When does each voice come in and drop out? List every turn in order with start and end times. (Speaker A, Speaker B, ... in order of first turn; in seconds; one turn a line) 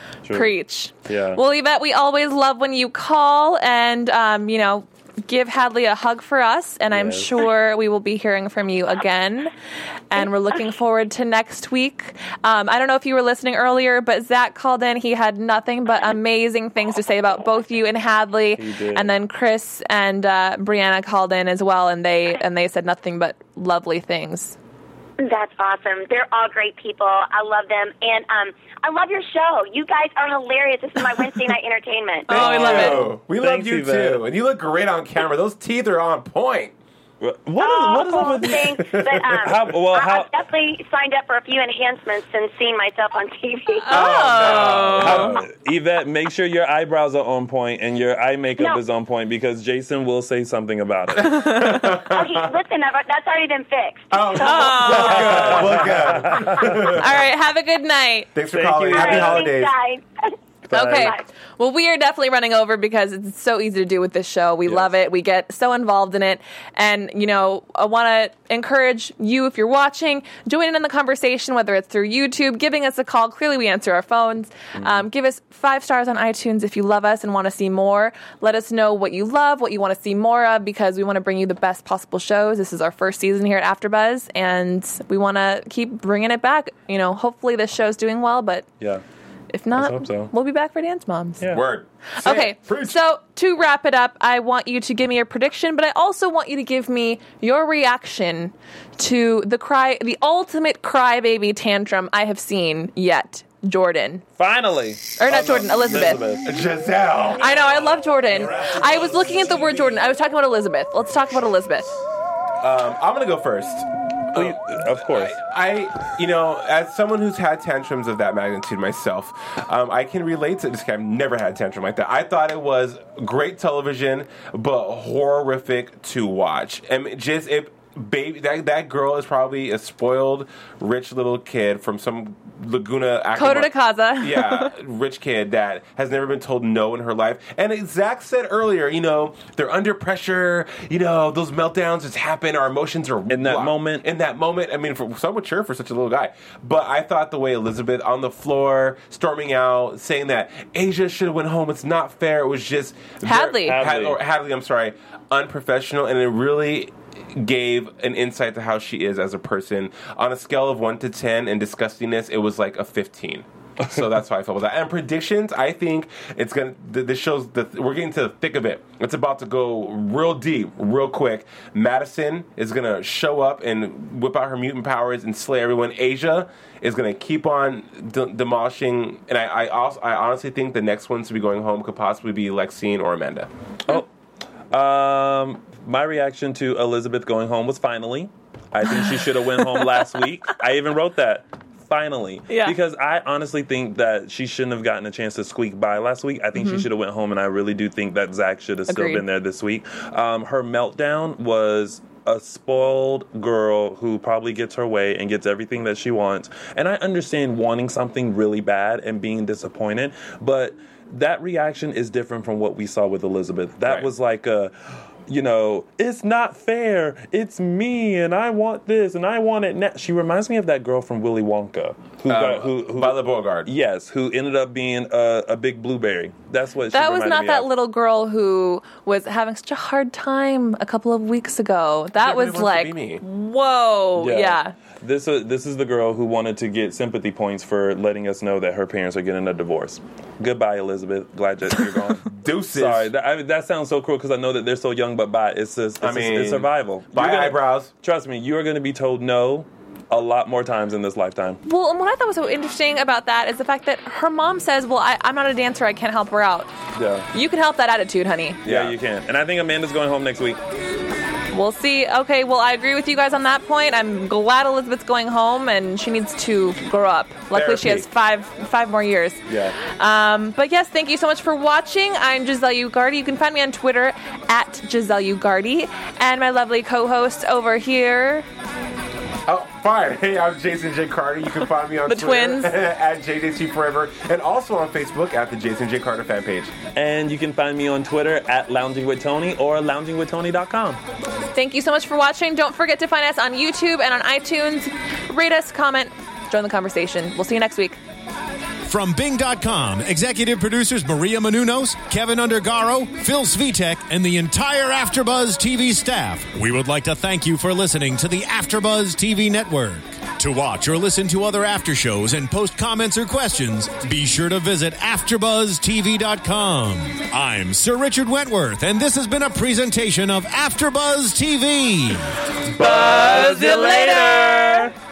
Speaker A: 0.2-0.5
Speaker B: 0.3-9.5
Speaker A: 1.1-1.4
Speaker A: 6.9-7.3
Speaker B: 10.1-24.6
Speaker A: 18.6-19.1
Speaker C: 25.2-32.6
Speaker B: 32.3-33.0
Speaker D: 32.3-36.7
Speaker A: 32.3-34.2
Speaker A: 37.2-40.3
Speaker C: 37.6-44.0
Speaker D: 38.8-39.4
Speaker B: 43.8-45.4
Speaker D: 43.9-45.4
Speaker A: 44.5-51.9
Speaker B: 51.2-51.8
Speaker D: 51.2-52.4
Speaker C: 52.0-54.7
Speaker D: 54.1-57.1
Speaker B: 54.3-58.3
Speaker A: 54.9-56.9
Speaker D: 58.3-59.7
Speaker A: 58.5-59.5
Speaker C: 58.9-60.4
Speaker A: 60.7-61.1
Speaker B: 60.7-88.7
Speaker A: 64.7-64.9
Speaker A: 74.8-75.0
Speaker B: 89.5-91.5
Speaker A: 89.7-90.3
Speaker A: 91.4-91.7
Speaker D: 91.5-93.0
Speaker B: 92.2-104.2
Speaker A: 104.4-106.5
Speaker B: 105.2-106.2
Speaker D: 106.4-110.0
Speaker B: 107.4-111.9
Speaker D: 112.6-183.5
Speaker A: 114.3-115.4
Speaker B: 133.3-134.7
Speaker A: 143.3-144.1
Speaker B: 153.2-153.8
Speaker A: 153.2-154.2
Speaker A: 184.7-227.7
Speaker B: 192.5-192.7
Speaker B: 196.6-196.8
Speaker B: 198.9-199.2
Speaker D: 213.8-214.1
Speaker D: 222.3-223.7
Speaker B: 226.9-234.7
Speaker D: 232.2-233.2
Speaker A: 234.2-251.6
Speaker D: 242.3-243.1
Speaker D: 246.0-247.9
Speaker B: 251.7-256.7
Speaker A: 256.9-257.3
Speaker B: 257.3-258.6
Speaker D: 258.6-258.9
Speaker A: 258.6-260.6
Speaker B: 261.5-278.5
Speaker D: 267.5-268.0
Speaker A: 269.5-269.8
Speaker D: 279.5-286.7
Speaker B: 282.1-282.7
Speaker A: 286.9-291.0
Speaker B: 291.5-298.0
Speaker E: 298.8-322.3
Speaker A: 322.7-324.9
Speaker B: 322.8-324.8